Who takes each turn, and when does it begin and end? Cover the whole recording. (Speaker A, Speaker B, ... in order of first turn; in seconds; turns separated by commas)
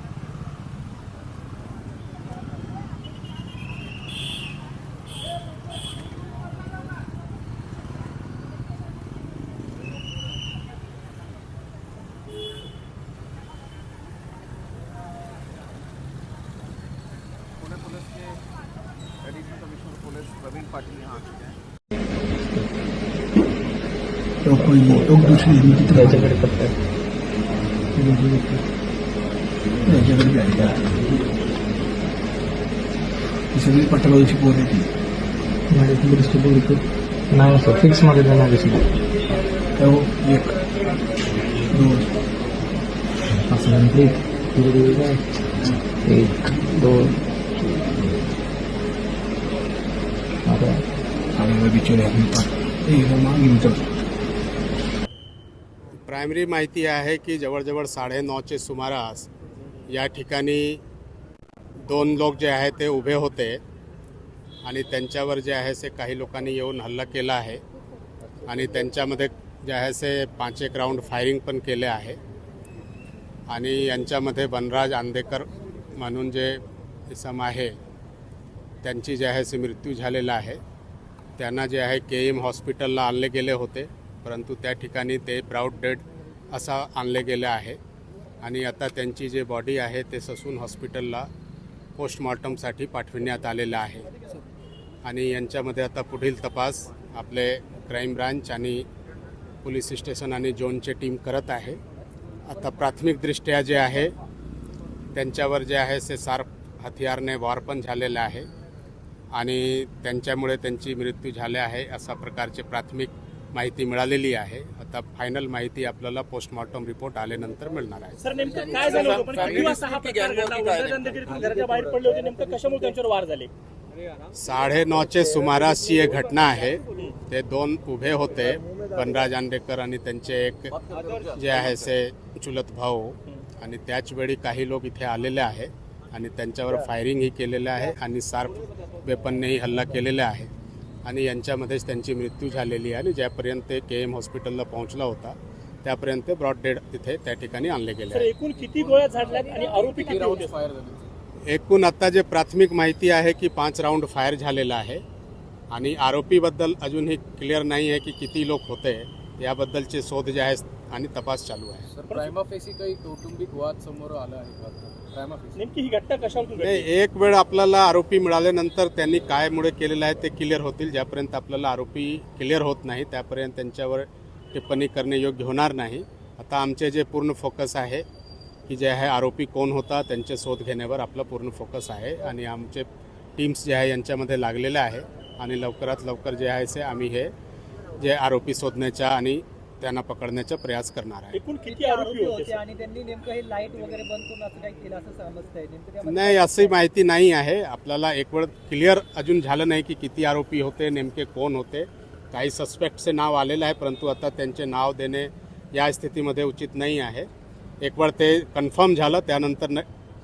Speaker A: 17.6-18.3, Speaker A: 19.3-21.6, Speaker B: 24.4-26.4, Speaker C: 24.6-26.8, Speaker B: 28.0-28.6, Speaker B: 29.9-31.1, Speaker B: 33.5-34.9, Speaker C: 35.7-38.9, Speaker B: 39.8-40.6, Speaker B: 41.7-42.1, Speaker C: 43.5-47.2, Speaker C: 50.5-50.9, Speaker B: 51.3-53.9, Speaker D: 56.0-59.3, Speaker D: 59.9-60.8, Speaker D: 61.8-63.6, Speaker D: 64.7-67.6, Speaker D: 68.4-72.2, Speaker D: 73.5-77.8, Speaker D: 78.8-80.6, Speaker D: 81.4-87.8, Speaker D: 88.4-91.3, Speaker D: 92.0-94.1, Speaker D: 95.0-98.8, Speaker D: 99.6-101.8, Speaker D: 102.5-104.1, Speaker D: 105.2-108.5, Speaker D: 109.3-119.2, Speaker E: 118.2-123.5, Speaker A: 119.0-121.2, Speaker D: 124.3-140.5, Speaker A: 130.8-131.7, Speaker D: 141.1-148.3, Speaker E: 148.1-150.5, Speaker F: 148.9-151.1, Speaker G: 149.4-150.3, Speaker D: 151.5-155.0, Speaker D: 155.7-161.8, Speaker F: 161.9-165.6, Speaker E: 165.6-166.9, Speaker D: 166.6-178.1, Speaker D: 178.7-187.3, Speaker D: 188.0-191.4, Speaker E: 191.3-192.6, Speaker G: 191.7-196.8, Speaker D: 196.0-207.3, Speaker D: 207.8-209.8